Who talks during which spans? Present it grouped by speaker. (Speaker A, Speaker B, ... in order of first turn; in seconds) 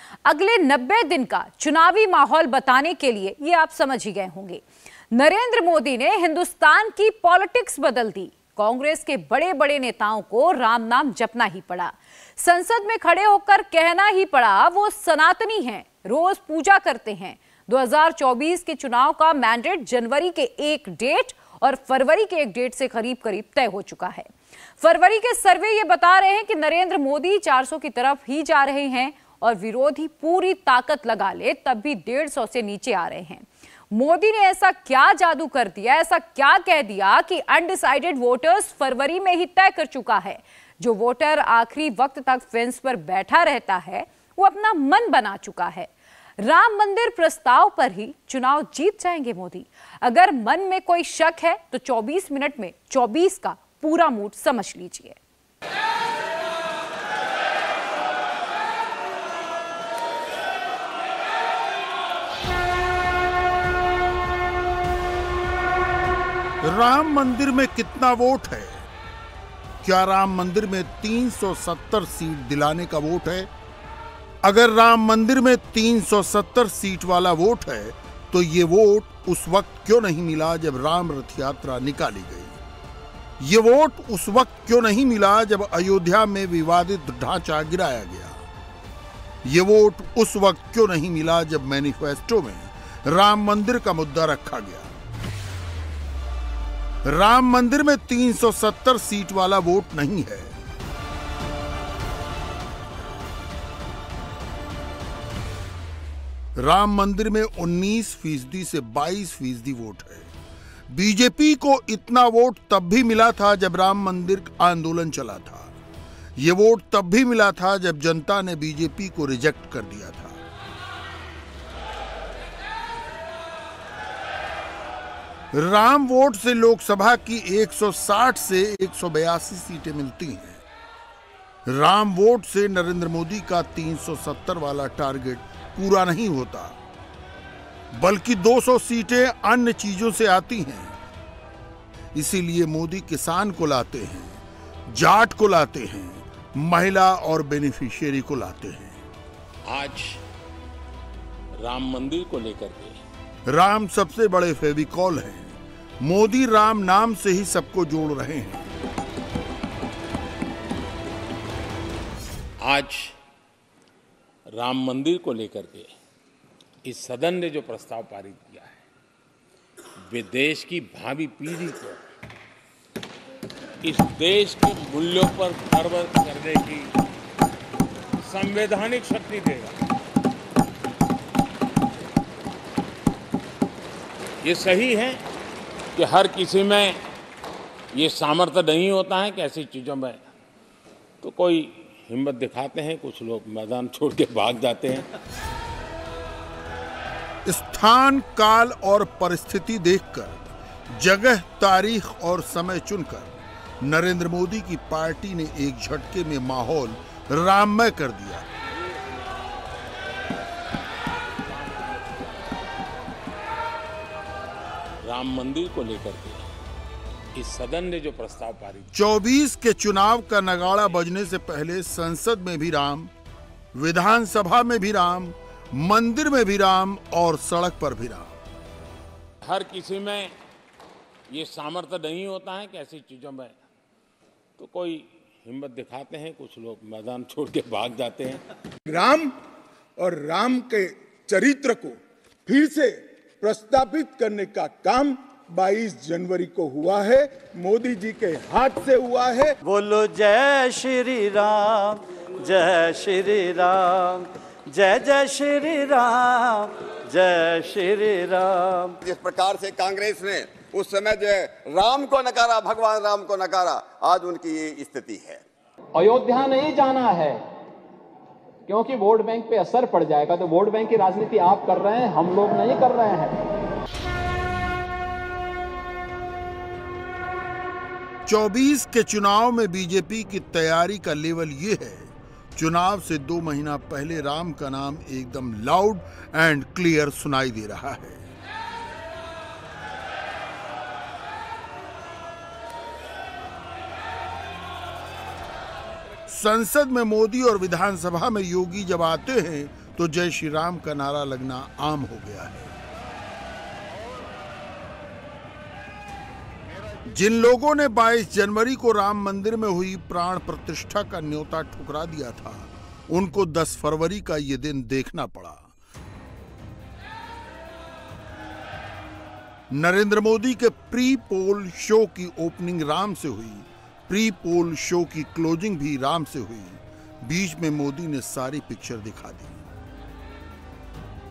Speaker A: 0.2-55.2
Speaker B: 66.6-68.9, 69.8-73.5, 74.4-82.6, 83.4-88.4, 89.4-94.9, 97.0-100.5, 106.5-110.3, 110.9-115.7, 116.4-120.4, 125.5-130.6, 131.7-136.8, 137.9-140.9, 142.1-149.0, 153.5-158.7, 197.4-208.4, 218.9-223.1, 223.7-228.4, 278.2-288.2, 296.3-302.7, 307.1-315.7, 319.7-329.6
Speaker C: 149.7-150.2, 151.6-153.0, 162.6-163.2, 164.5-165.9, 166.8-168.8, 170.1-172.0, 173.8-176.9, 178.2-179.8, 184.4-185.2, 185.9-187.0, 187.9-190.2, 191.2-195.1, 208.7-209.9, 211.4-212.8, 215.0-216.5, 217.3-218.9, 229.4-230.3, 231.3-233.6, 234.6-238.4
Speaker D: 238.9-239.3, 240.0-249.5
Speaker E: 249.6-258.9
Speaker F: 259.0-265.4
Speaker G: 265.9-267.4, 268.7-273.4